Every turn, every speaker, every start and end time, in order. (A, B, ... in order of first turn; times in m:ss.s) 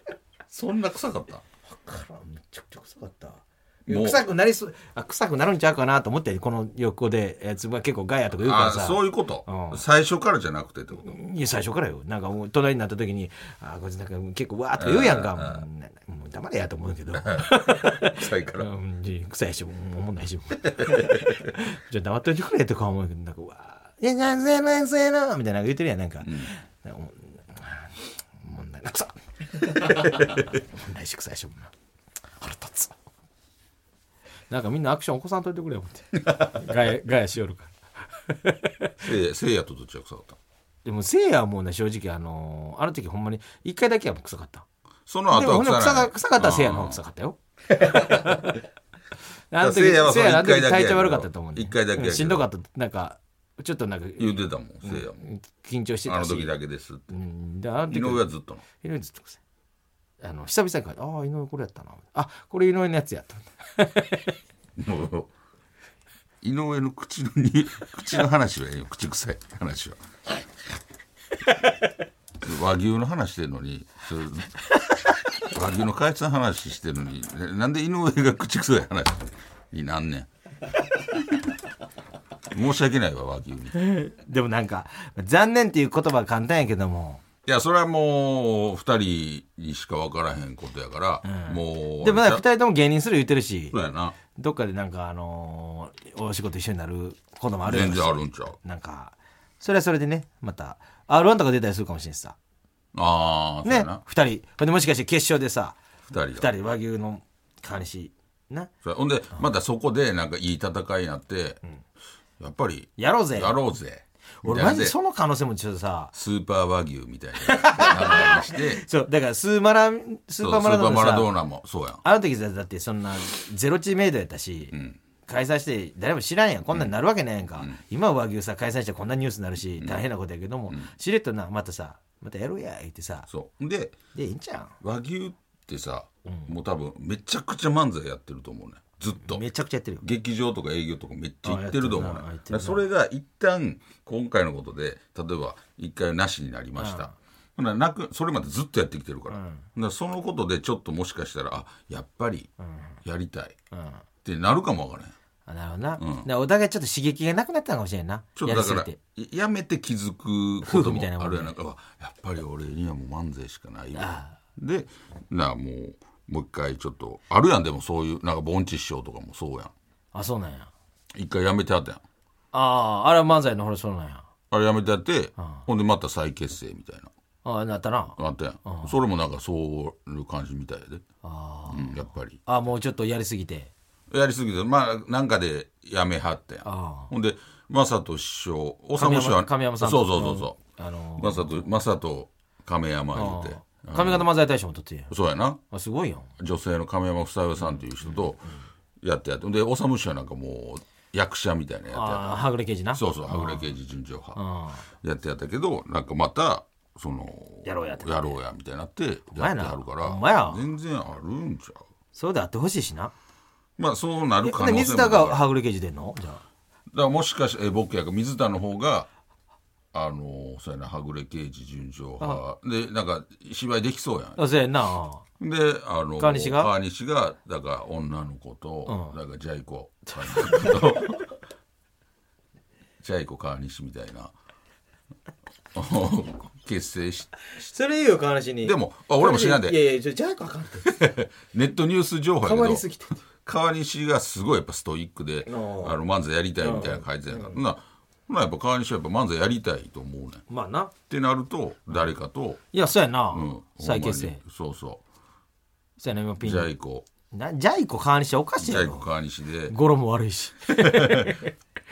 0:00.5-0:01.4 A
0:01.6-0:09.8 B
0:03.9-0:04.2 A
0:08.4-0:11.2 A
0:11.0-0:31.7 B
0:14.8-0:15.6 A
0:17.1-0:18.7 A
0:20.8-0:21.3 A
0:26.2-0:26.5 A
0:32.4-0:33.0 B
0:34.5-0:39.0 B
0:39.0-0:40.4 A
0:40.8-0:44.6 B
0:45.1-0:47.0 A
0:45.3-0:48.6 B
0:47.9-0:48.4 A
0:49.5-0:54.3 B
0:49.6-0:52.5 A
0:54.2-0:55.2 A
0:54.8-0:56.5 B
0:56.1-0:57.1 A
0:57.1-0:59.4 B
0:57.9-0:58.6 A
1:00.2-1:04.3 B
1:04.8-1:05.3 A
1:06.4-1:10.0 A
1:12.4-1:14.6 A
1:15.4-1:20.3 A
1:22.5-1:23.8 A
1:23.7-1:27.2 B
1:27.5-1:32.4 A
1:31.2-1:33.8 B
1:33.7-1:34.2 A
1:34.4-1:42.4 B
1:37.6-1:38.6 A
1:42.9-1:44.0 A
1:43.6-1:45.8 B
1:46.1-1:46.5 A
1:46.4-1:48.7 B
1:48.8-1:51.6 A
1:52.4-1:55.0 A
1:53.0-1:53.5 B
1:54.4-1:56.1 B
1:56.1-1:58.8 A
1:57.4-2:01.3 B
2:00.4-2:02.0 A
2:02.0-2:04.8 B
2:04.7-2:05.0 A
2:05.3-2:13.3 B
2:13.3-2:14.0 A
2:14.1-2:14.8 B
2:14.8-2:19.4 A
2:19.2-2:20.0 B
2:20.0-2:32.5 A
2:21.4-2:22.8 B
2:26.8-2:27.1 B
2:29.3-2:29.6 B
2:33.0-2:33.6 A
2:33.7-2:34.0 B
2:34.2-2:35.1 A
2:35.5-2:39.0 B
2:36.0-2:36.3 A
2:38.4-2:49.7 A
2:40.6-2:41.5 B
2:44.0-2:44.4 B
2:50.1-2:50.7 B
2:51.1-2:52.0 A
2:52.5-2:54.3 B
2:54.5-2:57.1 A
2:57.4-2:59.0 B
2:58.2-3:01.0 A
3:01.2-3:03.7 B
3:01.7-3:02.4 A
3:04.1-3:10.6 A
3:06.6-3:07.1 B
3:09.0-3:11.5 B
3:11.2-3:14.3 A
3:13.1-3:15.1 B
3:15.1-3:15.6 A
3:15.7-3:16.3 B
3:16.4-3:18.5 A
3:17.7-3:18.6 B
3:19.0-3:22.4 A
3:21.9-3:23.7 B
3:22.9-3:24.4 A
3:24.4-3:24.8 B
3:25.0-3:31.8 A
3:27.6-3:28.4 B
3:29.3-3:30.6 B
3:32.1-3:33.1 B
3:33.8-3:35.4 A
3:34.4-3:36.4 B
3:36.9-3:39.1 A
3:39.9-3:44.4 A
3:44.4-3:45.2 B
3:45.4-3:51.2 A
3:46.2-3:46.7 B
3:48.9-3:49.1 B
3:50.1-3:51.2 B
3:53.0-3:54.3 A
3:55.8-3:57.3 A
3:57.6-4:00.9 B
3:58.6-3:59.8 A
4:00.8-4:10.4 A
4:02.4-4:03.2 B
4:05.5-4:06.0 B
4:06.6-4:07.6 B
4:10.5-4:10.9 B
4:11.1-4:12.6 A
4:12.7-4:14.4 B
4:13.3-4:15.0 A
4:16.0-4:16.7 B
4:16.4-4:17.1 A
4:17.3-4:19.1 B
4:18.6-4:19.8 A
4:19.7-4:21.5 B
4:20.7-4:21.4 A